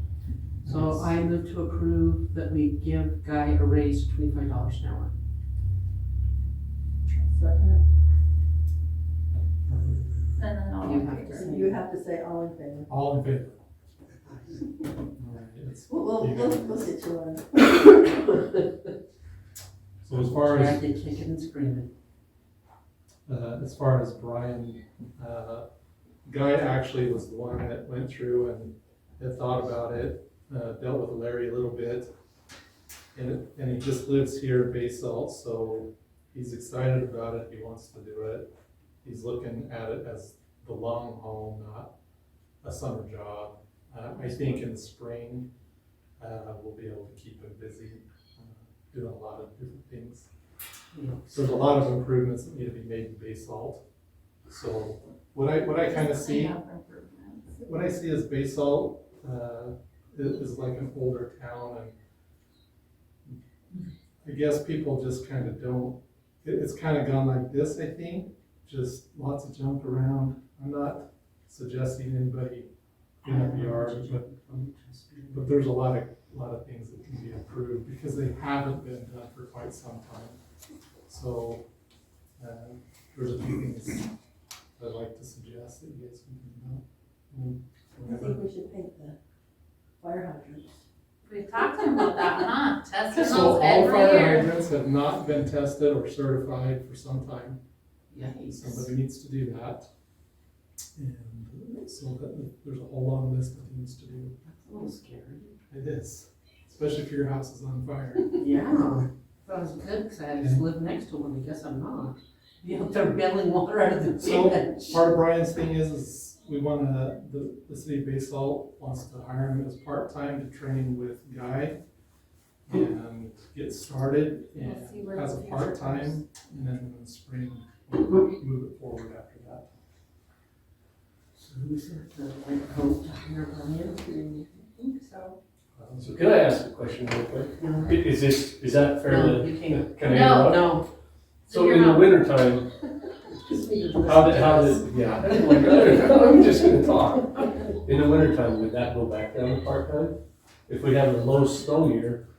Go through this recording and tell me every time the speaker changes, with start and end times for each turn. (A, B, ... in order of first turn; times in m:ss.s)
0:00.6-0:01.1 A
0:00.6-0:05.1 B
0:07.3-0:07.8 C
0:09.7-0:10.4 A
0:10.4-0:11.6 D
0:10.8-0:11.8 B
0:11.3-0:12.9 C
0:12.9-0:13.6 A
0:15.1-0:16.9 A
0:15.9-0:17.4 C
0:17.6-0:18.9 B
0:20.0-0:20.8 A
0:20.1-0:21.9 B
0:23.3-0:25.6 A
0:26.2-0:32.1 A
0:33.1-0:38.4 A
0:39.0-0:41.9 A
0:42.6-0:45.5 A
0:46.2-0:50.3 A
0:50.9-0:51.6 B
0:51.3-0:53.8 A
0:54.5-0:56.6 A
0:55.8-0:57.5 D
0:57.6-1:01.9 A
1:04.2-1:12.7 A
1:13.2-1:15.6 B
1:13.2-1:14.2 A
1:15.3-1:20.4 A
1:21.1-1:21.6 A
1:22.4-1:24.1 A
1:24.8-1:28.4 A
1:28.1-1:28.6 D
1:28.1-1:29.1 C
1:30.0-1:30.6 C
1:30.1-1:30.5 D
1:31.2-1:34.4 D
1:33.1-1:37.6 A
1:38.1-1:38.9 B
1:38.2-1:39.9 A
1:41.0-1:44.3 A
1:44.4-1:45.5 B
1:45.7-1:48.4 A
1:48.4-1:55.0 B
1:50.4-1:50.6 A
1:54.2-2:01.8 A
2:02.7-2:09.7 A
2:04.6-2:06.2 D
2:11.4-2:14.4 B
2:15.8-2:16.1 A
2:16.0-2:20.7 E
2:17.6-2:18.0 B
2:19.0-2:20.8 B
2:20.1-2:20.5 D
2:21.5-2:22.1 D
2:21.5-2:22.7 E
2:23.3-2:27.6 B
2:24.0-2:30.1 E
2:30.7-2:32.2 E